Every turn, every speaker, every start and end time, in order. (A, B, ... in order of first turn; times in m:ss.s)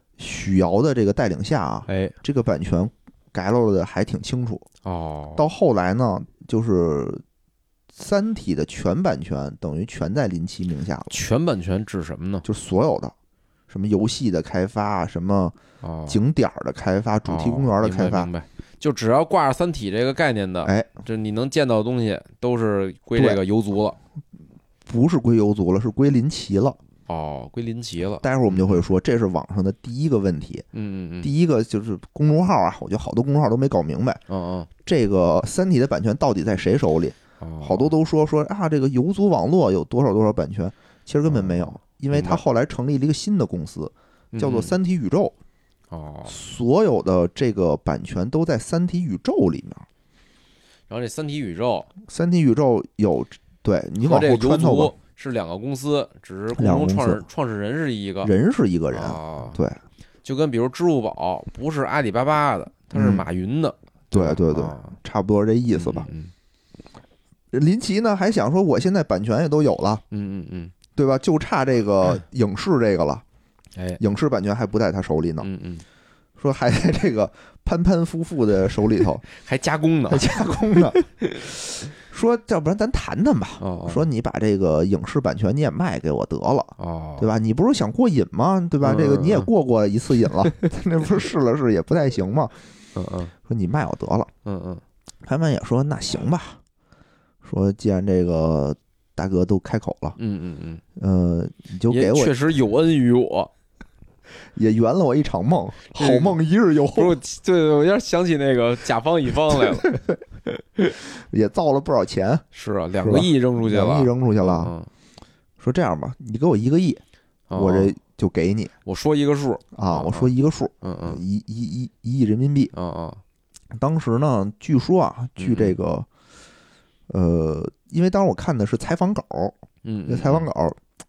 0:00.2-0:04.6 A
0:01.9-0:02.2 B
0:04.8-0:05.4 B
0:05.4-0:07.2 A
0:07.9-0:11.1 A
0:11.1-0:12.4 B
0:12.4-0:13.1 A
0:13.7-0:15.5 A
0:15.8-0:16.2 B
0:16.1-0:18.3 A
0:17.3-0:24.0 B
0:20.6-0:20.9 A
0:24.8-0:26.8 A
0:27.1-0:28.8 B
0:28.2-0:30.6 A
0:30.7-0:31.3 B
0:31.2-0:34.2 A
0:34.3-0:34.7 B
0:34.8-0:45.3 A
0:37.4-0:37.9 B
0:41.3-0:42.4 B
0:44.3-0:44.8 B
0:45.9-0:46.4 B
0:46.3-0:49.8 A
0:50.9-0:51.9 B
0:52.1-0:54.9 A
0:54.0-0:58.3 B
0:56.5-0:57.2 A
0:58.2-0:59.8 A
0:58.9-0:59.6 B
1:00.2-1:05.0 B
1:02.9-1:03.2 A
1:04.1-1:06.1 A
1:05.7-1:06.3 B
1:07.5-1:10.0 A
1:10.1-1:10.7 B
1:11.0-1:13.2 A
1:13.8-1:14.0 B
1:14.0-1:15.5 A
1:15.4-1:15.8 B
1:16.4-1:19.2 A
1:19.3-1:20.4 B
1:20.1-1:21.0 A
1:20.9-1:21.4 B
1:21.8-1:32.5 A
1:23.6-1:24.1 B
1:26.8-1:27.3 B
1:28.8-1:29.5 B
1:32.9-1:33.3 B
1:33.4-1:34.3 A
1:34.4-1:34.8 B
1:35.2-1:36.6 A
1:37.4-1:40.2 A
1:40.2-1:40.8 B
1:41.0-1:42.3 A
1:41.9-1:43.5 B
1:44.5-1:47.2 A
1:46.0-1:46.4 B
1:46.9-1:50.0 B
1:49.5-1:50.2 A
1:50.8-1:52.4 A
1:52.5-1:54.9 B
1:53.0-1:54.7 A
1:55.6-1:57.0 A
1:57.5-1:57.9 B
1:57.5-1:58.7 A
1:58.8-2:01.2 B
1:59.7-2:02.7 A
2:02.7-2:03.2 B
2:03.7-2:06.1 A
2:05.4-2:05.8 B
2:07.1-2:09.6 A
2:09.8-2:10.5 B
2:10.1-2:10.8 A